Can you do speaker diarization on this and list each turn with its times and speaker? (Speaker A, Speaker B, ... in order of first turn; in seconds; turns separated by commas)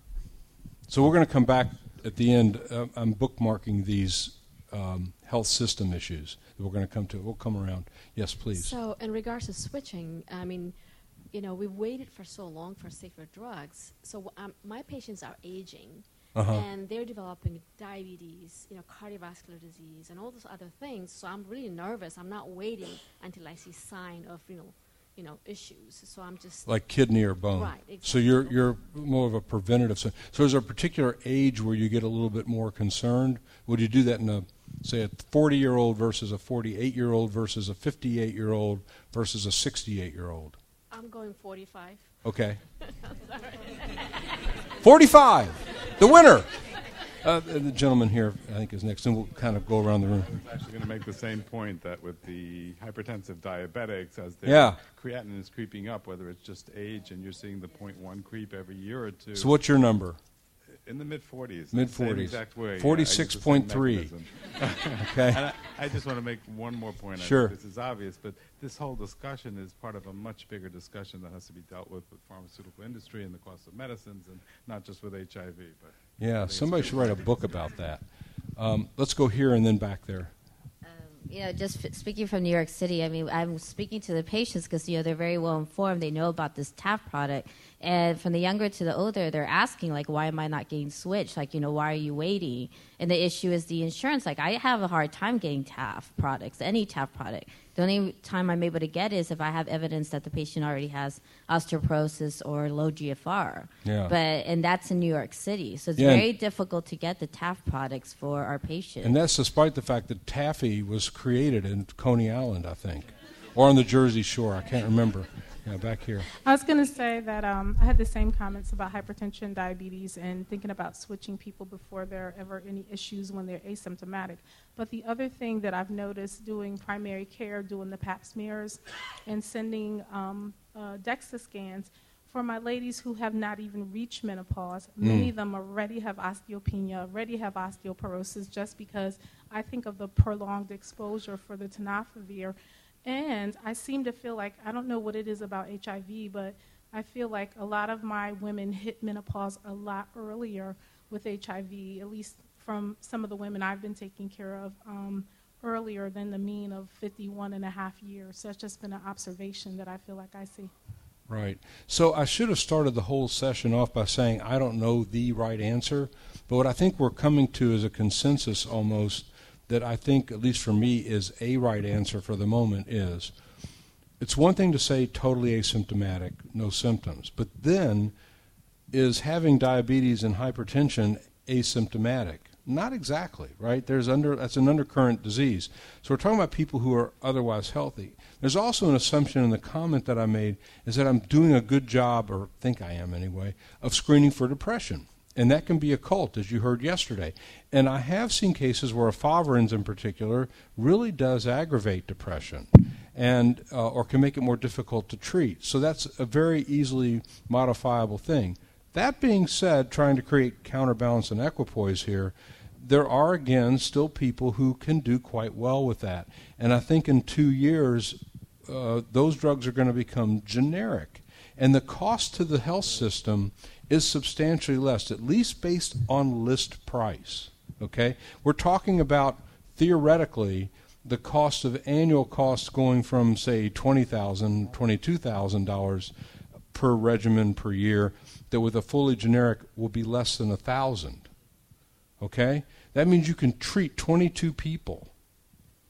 Speaker A: 0.9-8.8, Speaker B: 8.5-10.8, Speaker B: 11.3-26.7, Speaker A: 16.3-16.6, Speaker A: 26.6-40.6, Speaker B: 27.5-28.8, Speaker B: 40.9-42.1, Speaker A: 42.2-42.6, Speaker B: 42.9-44.5, Speaker A: 44.8-46.5, Speaker A: 47.2-50.3, Speaker C: 50.3-59.5, Speaker A: 54.4-54.8, Speaker A: 59.3-60.2, Speaker C: 60.8-77.4, Speaker A: 61.7-64.1, Speaker A: 65.0-65.4, Speaker A: 67.2-67.5, Speaker A: 76.2-78.0, Speaker A: 78.5-80.3, Speaker D: 80.8-109.2, Speaker A: 103.8-104.1, Speaker A: 106.0-106.3, Speaker A: 109.0-116.3, Speaker E: 116.4-160.7, Speaker A: 135.0-135.3, Speaker A: 161.3-173.3, Speaker A: 174.2-178.1, Speaker A: 178.9-236.1, Speaker A: 236.7-241.3, Speaker A: 242.2-245.1